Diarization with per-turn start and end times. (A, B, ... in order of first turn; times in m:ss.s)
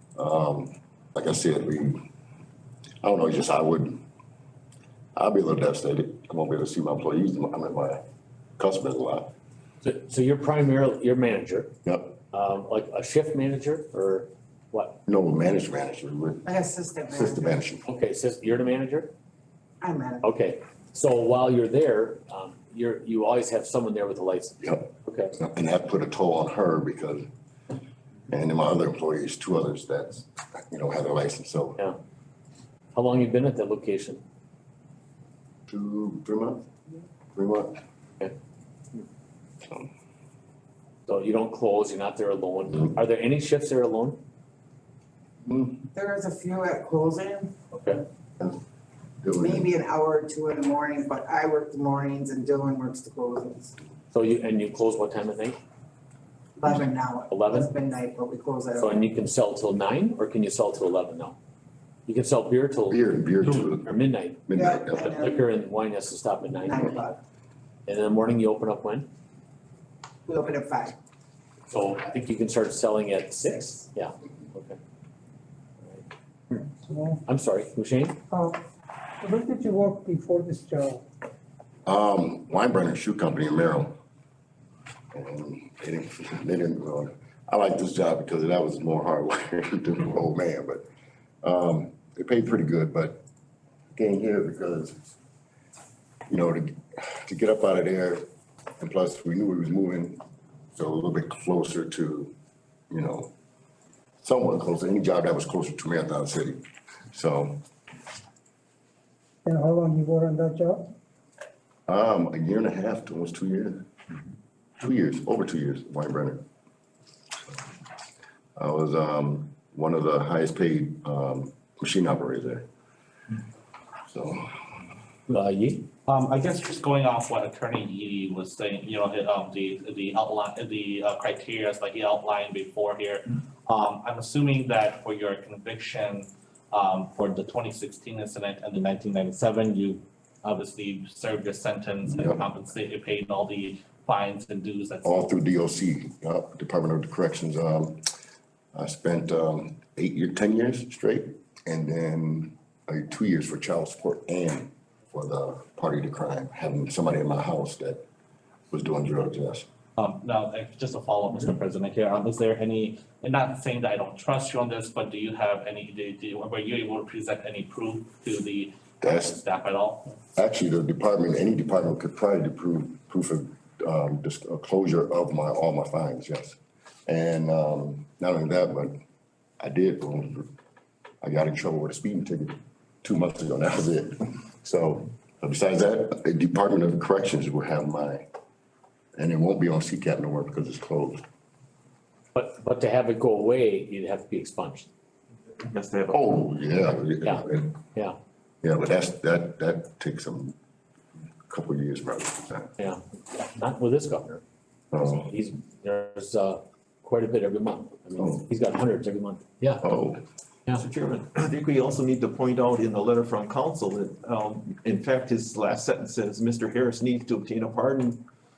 0:00.2-0:02.0 A
0:03.0-0:04.0 A
0:05.2-0:08.0 A
0:08.6-0:09.3 A
0:09.8-0:11.7 B
0:11.8-0:12.2 A
0:12.3-0:15.0 B
0:15.1-0:16.5 A
0:16.4-0:17.6 C
0:17.2-0:17.9 A
0:17.9-0:19.1 B
0:19.8-0:20.3 C
0:20.2-0:25.3 B
0:24.6-0:27.3 A
0:28.3-0:31.8 A
0:32.9-0:34.2 B
0:35.7-0:36.7 A
0:37.4-0:37.8 A
0:41.1-0:44.2 B
0:45.5-0:45.9 A
0:45.9-0:47.6 C
0:47.7-0:48.0 B
0:49.2-0:49.7 A
0:49.4-0:53.7 C
0:54.1-0:55.6 B
0:56.6-0:59.0 C
0:57.3-0:57.7 B
0:58.8-1:01.4 B
1:02.1-1:07.0 B
1:02.9-1:03.9 A
1:04.5-1:05.1 A
1:04.5-1:05.4 C
1:06.6-1:07.2 C
1:07.9-1:09.1 B
1:10.3-1:11.0 C
1:11.7-1:14.8 B
1:15.9-1:16.6 B
1:16.8-1:17.2 D
1:17.3-1:18.2 B
1:18.3-1:18.6 D
1:19.2-1:21.0 D
1:21.9-1:24.0 A
1:25.1-1:30.8 A
1:31.4-1:33.2 A
1:34.0-1:35.0 A
1:36.3-1:38.2 A
1:38.8-1:40.2 A
1:40.8-1:42.3 A
1:42.9-1:43.3 A
1:44.2-1:47.6 A
1:49.5-1:50.9 D
1:51.9-1:53.9 A
1:54.8-1:56.4 A
1:58.6-2:02.7 A
2:04.1-2:04.4 A
2:05.3-2:05.9 B
2:06.1-2:25.2 E
2:25.0-2:28.0 A
2:28.7-2:38.0 A
2:38.7-2:39.7 A
2:40.0-2:50.1 E
2:49.0-2:49.4 A
2:50.4-2:59.0 A
2:59.6-3:00.5 A
3:01.2-3:08.2 A
3:09.2-3:11.2 A
3:12.3-3:14.9 B
3:15.7-3:16.2 F
3:16.1-3:17.8 A
3:18.6-3:20.6 A
3:21.5-3:22.7 A
3:22.8-3:24.4 B
3:24.9-3:25.3 A
3:25.0-3:29.8 B
3:29.8-3:30.2 A
3:30.7-3:38.2 F